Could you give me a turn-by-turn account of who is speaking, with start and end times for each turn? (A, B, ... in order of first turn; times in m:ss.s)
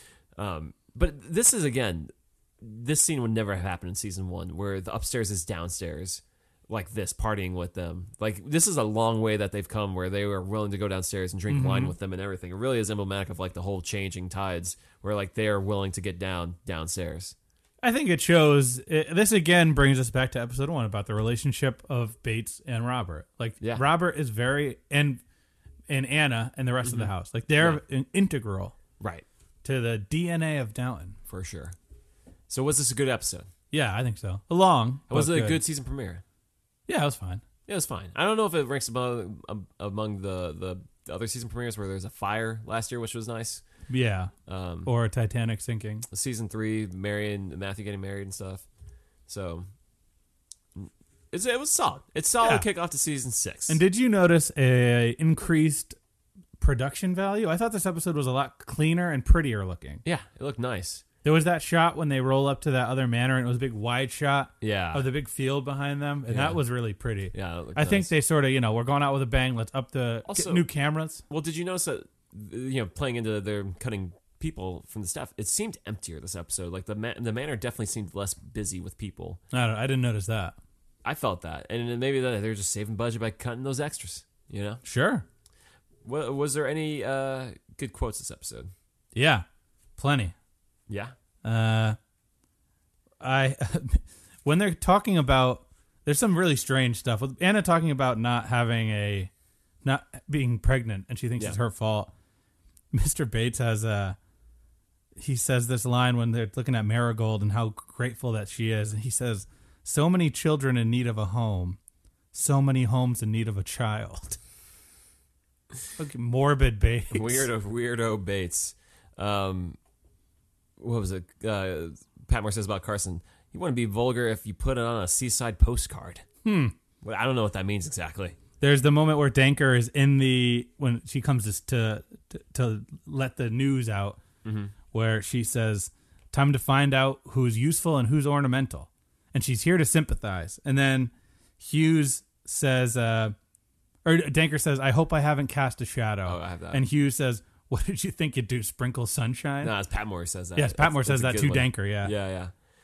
0:00.4-0:17.3 A
0:11.5-0:11.9 B
0:17.8-0:25.2 B
0:25.9-0:28.8 B
0:26.8-0:27.8 A
0:29.0-0:29.2 A
0:29.6-0:31.2 B
0:31.3-0:31.7 A
0:32.5-0:33.5 A
0:33.7-0:35.6 B
0:35.1-0:36.2 A
0:36.9-0:37.4 B
0:37.7-0:43.6 A
0:43.9-0:44.3 B
0:44.5-0:44.9 A
0:44.8-0:46.1 B
0:46.1-0:48.6 A
0:49.3-0:49.6 A
0:50.7-0:53.8 A
0:53.7-0:56.0 B
0:56.6-1:00.0 B
1:00.0-1:01.0 A
1:01.2-1:11.2 B
1:04.6-1:05.0 A
1:06.3-1:06.6 A
1:07.3-1:08.1 A
1:10.2-1:10.6 A
1:11.3-1:19.4 A
1:19.5-1:20.6 B
1:21.0-1:24.8 A
1:24.8-1:25.2 B
1:26.0-1:28.7 A
1:29.1-1:29.4 B
1:30.0-1:30.3 B
1:30.9-1:31.1 A
1:31.4-1:32.0 B
1:33.2-1:39.3 B
1:39.8-1:42.1 B
1:42.9-1:44.2 B
1:45.2-1:51.8 B
1:52.3-1:54.4 B
1:56.0-1:57.5 B
1:57.1-1:59.8 A
2:00.8-2:06.2 A
2:06.4-2:06.7 B
2:07.0-2:08.4 A
2:08.6-2:14.2 B
2:14.4-2:14.7 A
2:14.9-2:23.3 B
2:24.0-2:29.7 B
2:26.2-2:26.8 A
2:29.6-2:32.5 A
2:30.6-2:32.1 B